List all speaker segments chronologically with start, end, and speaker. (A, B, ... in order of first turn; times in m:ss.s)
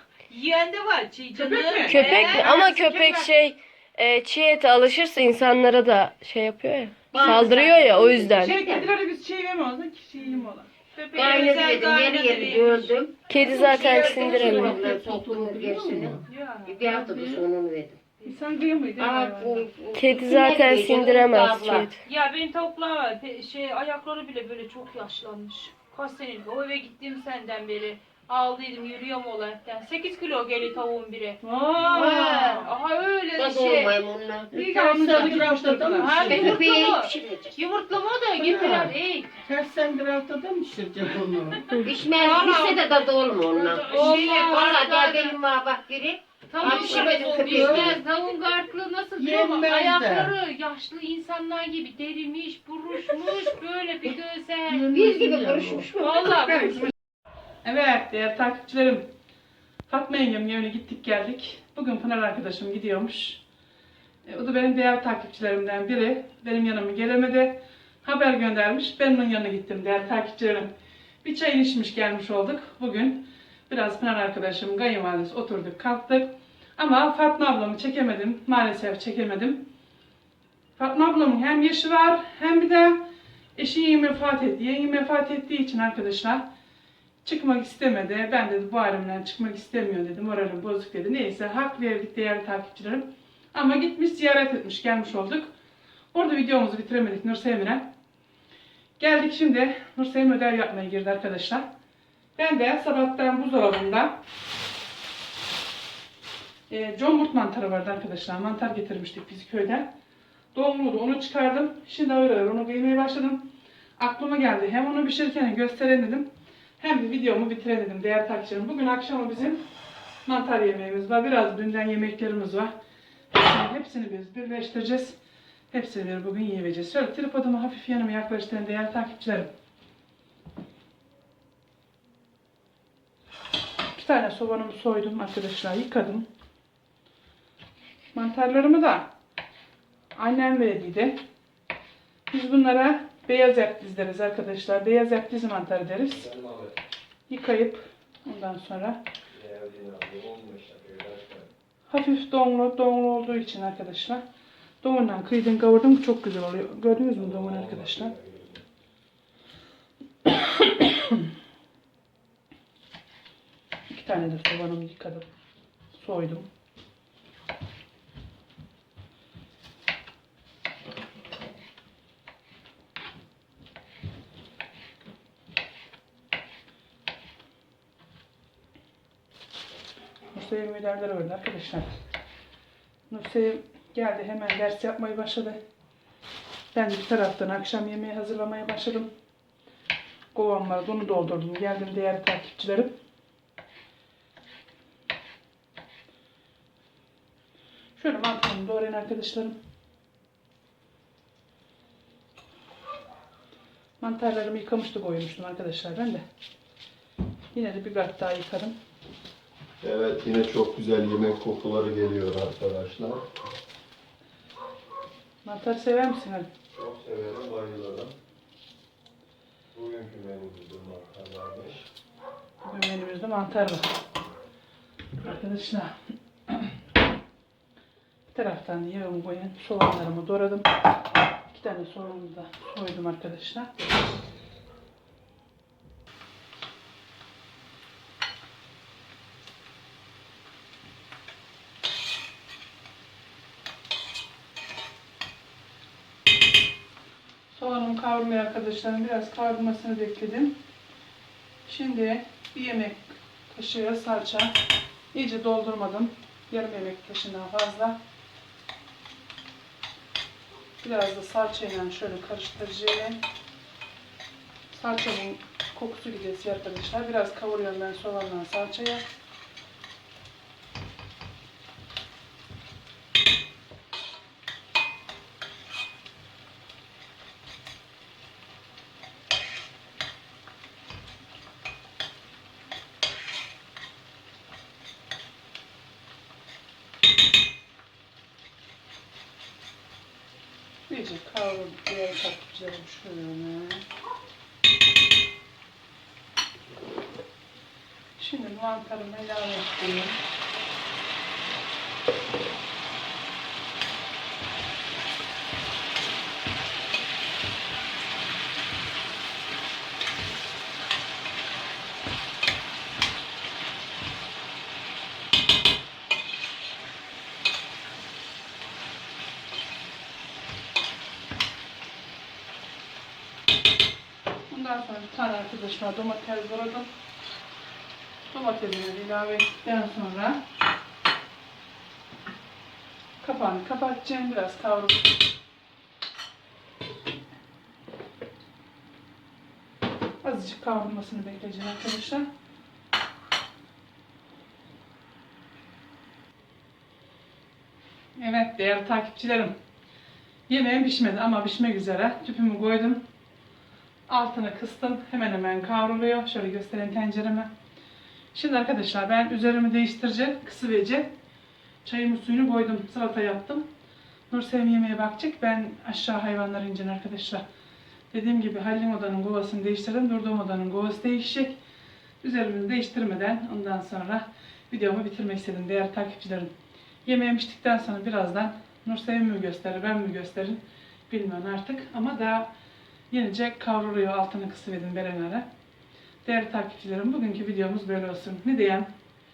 0:00.3-0:02.6 A
0:01.4-0:03.3 B
0:01.9-0:08.6 C
0:07.1-0:08.9 D
0:08.4-0:11.9 B
0:10.2-0:10.5 A
0:11.1-0:13.0 A
0:11.1-0:18.0 D
0:13.3-0:14.8 C
0:13.4-0:16.3 E
0:16.3-0:16.7 A
0:16.8-0:17.5 E
0:18.2-0:19.7 B
0:19.0-0:21.9 D
0:19.9-0:22.0 C
0:22.0-0:31.4 A
0:31.4-0:32.5 B
0:31.9-0:32.7 D
0:31.9-0:33.9 A
0:33.4-0:34.5 D
0:34.5-0:36.6 E
0:34.5-0:36.4 B
0:36.0-0:39.3 A
0:36.3-0:37.6 D
0:38.4-0:41.7 E
0:41.8-0:48.0 D
0:42.2-0:42.8 A
0:42.2-0:42.8 B
0:43.5-0:45.4 A
0:43.6-0:45.0 B
0:46.5-0:54.8 A
0:46.6-0:48.0 E
0:49.2-0:50.3 E
0:54.7-0:55.9 E
0:54.9-0:56.3 D
0:56.0-0:56.9 A
0:56.2-0:56.9 B
0:57.6-0:59.1 B
0:59.9-1:03.4 B
1:04.2-1:10.7 B
1:11.2-1:19.7 B
1:20.8-1:26.5 B
1:27.2-1:35.5 B
1:36.1-1:37.9 B
1:39.0-1:41.7 B
1:42.4-1:44.2 B
1:46.7-1:49.9 B
1:50.5-1:56.3 B
1:56.8-1:59.6 B
2:00.3-2:02.7 B
2:03.3-2:05.2 B
2:05.7-2:09.5 B
2:14.0-2:16.3 B
2:18.1-2:19.1 B
2:20.2-2:21.2 B
2:22.3-2:26.3 B
2:26.1-2:26.8 F
2:27.3-2:29.0 B
2:29.3-2:31.5 F
2:31.9-2:34.2 B
2:34.8-2:38.1 B
2:37.2-2:38.6 F
2:40.3-2:41.2 B
2:43.9-2:45.3 B
2:45.9-2:46.5 B
3:00.3-3:01.9 B
3:03.1-3:05.6 B
3:06.7-3:09.1 B
3:10.3-3:13.0 B
3:18.0-3:19.6 B
3:24.0-3:26.2 B
3:27.5-3:28.7 B
3:29.8-3:33.2 F
3:35.4-3:36.5 B
3:36.7-3:38.1 F
3:39.7-3:41.9 F
3:42.6-3:43.9 B
3:45.2-3:45.9 B
3:46.5-3:46.7 B
3:48.3-3:50.7 B
3:51.5-3:53.7 B
4:07.5-4:10.6 B
4:11.7-4:14.6 B
4:15.1-4:18.0 B
4:20.8-4:23.2 B
4:24.7-4:29.0 B
4:50.9-4:53.8 B
4:58.2-5:00.2 B
5:24.5-5:26.9 B
5:28.3-5:30.4 B
5:33.2-5:35.1 B
5:40.2-5:42.3 B
5:48.2-5:49.5 B
5:50.5-5:53.0 B
5:54.1-5:57.5 B
5:58.3-6:01.1 B
6:01.8-6:03.7 B
6:04.3-6:07.4 B
6:08.1-6:11.5 B
6:12.2-6:16.5 B
6:17.0-6:22.5 B
6:23.1-6:25.5 B
6:26.2-6:28.9 B